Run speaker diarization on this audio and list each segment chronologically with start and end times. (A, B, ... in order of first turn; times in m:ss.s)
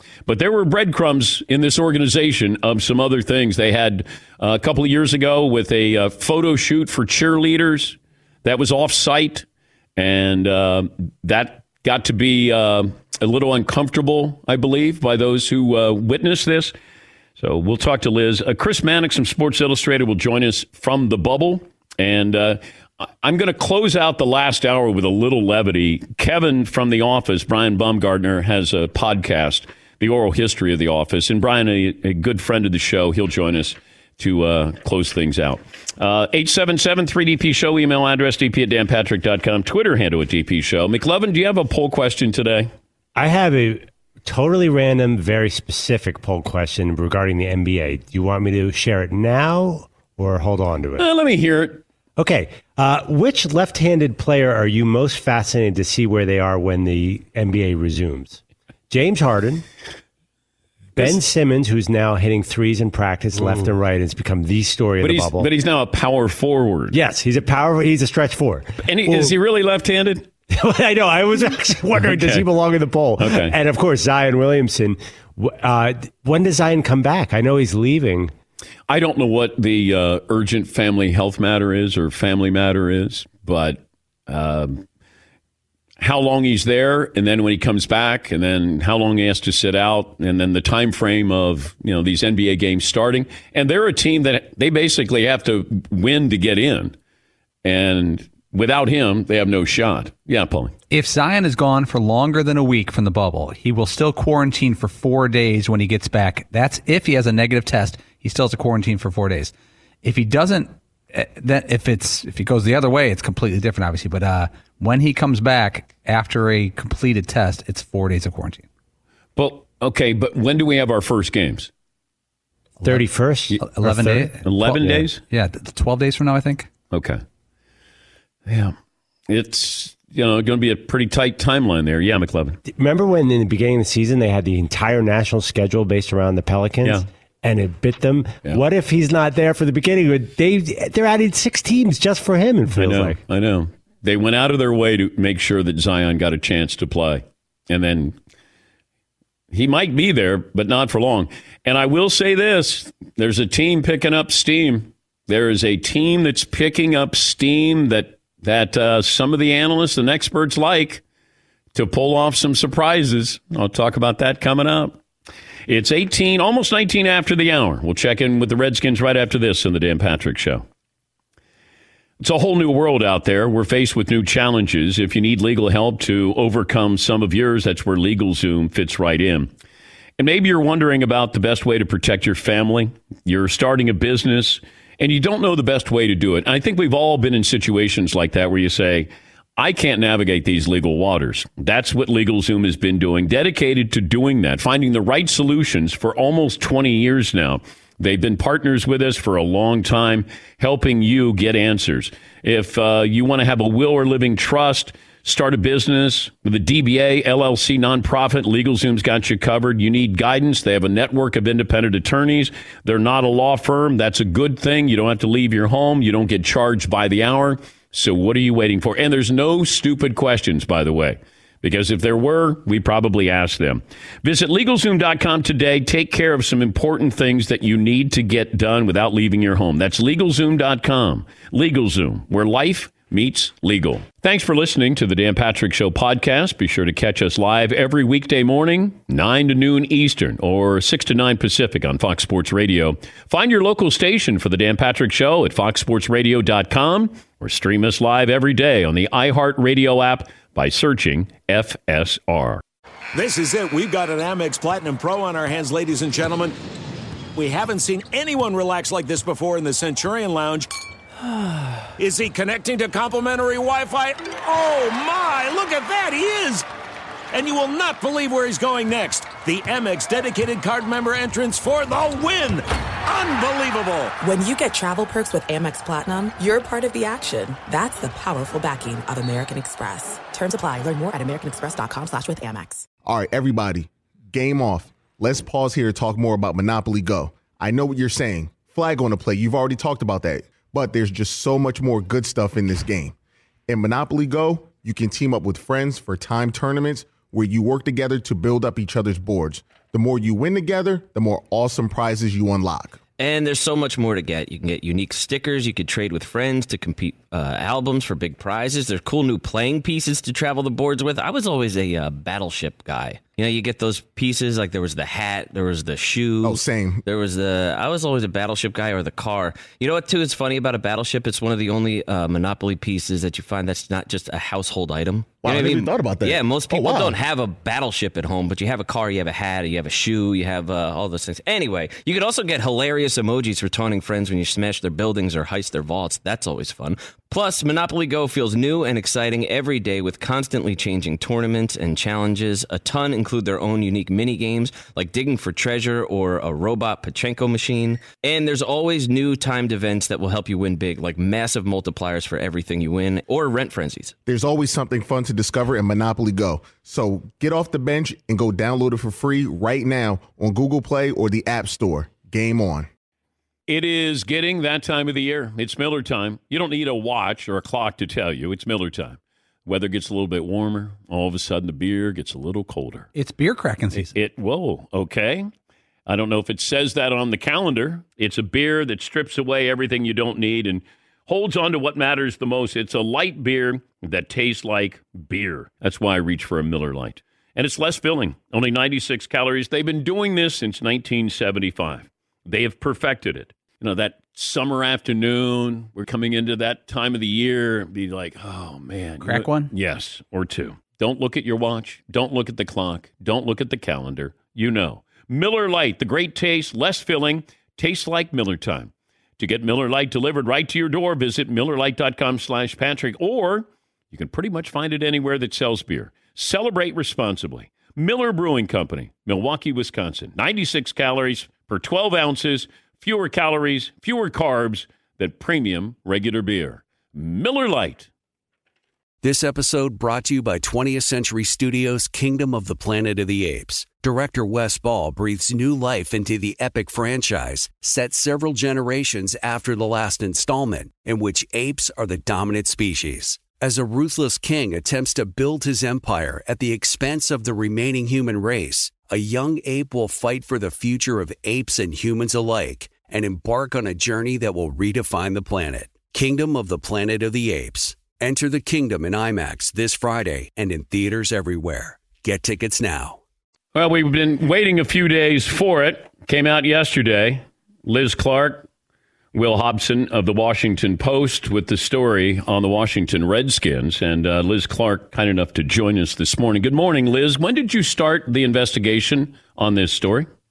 0:00.2-0:09.4 A
0:10.0-0:16.7 A
0:17.4-0:42.7 A
0:43.2-0:51.0 B
0:51.0-0:51.8 A
0:52.2-0:59.6 B
1:01.0-1:05.5 B
1:05.0-1:07.0 A
1:06.9-1:09.3 B
1:08.8-1:10.3 A
1:10.5-1:18.3 B
1:12.0-1:12.5 A
1:13.2-1:13.5 A
1:18.9-1:24.8 A
1:26.0-1:36.9 A
1:37.6-1:40.7 A
1:40.9-1:58.6 C
1:59.4-2:01.7 A
2:02.8-2:03.6 B
2:03.5-2:05.2 A
2:03.6-2:06.7 C
2:06.9-2:07.2 A
2:08.4-2:08.7 A
2:09.3-2:12.6 A
2:12.7-2:23.2 B
2:22.7-2:28.2 A
2:29.5-2:41.0 A
2:41.7-2:45.0 A
2:45.7-2:50.6 A
2:52.2-2:59.5 A
3:00.2-4:12.6 A
4:13.1-4:16.6 D
4:17.3-4:20.7 D
4:22.0-4:26.7 D
4:27.3-4:34.1 D
4:34.2-4:42.9 E
4:43.0-4:53.2 F
4:53.7-5:03.0 F
5:03.2-5:54.2 G
5:16.4-5:17.0 F
5:25.4-5:27.2 F
5:54.2-6:02.9 F
6:03.7-6:13.1 A
6:13.1-6:14.1 C
6:14.0-6:15.5 A
6:16.1-7:08.1 A
6:39.2-6:39.7 C
7:09.2-7:43.2 H
7:43.7-7:48.6 A
7:49.3-8:00.3 A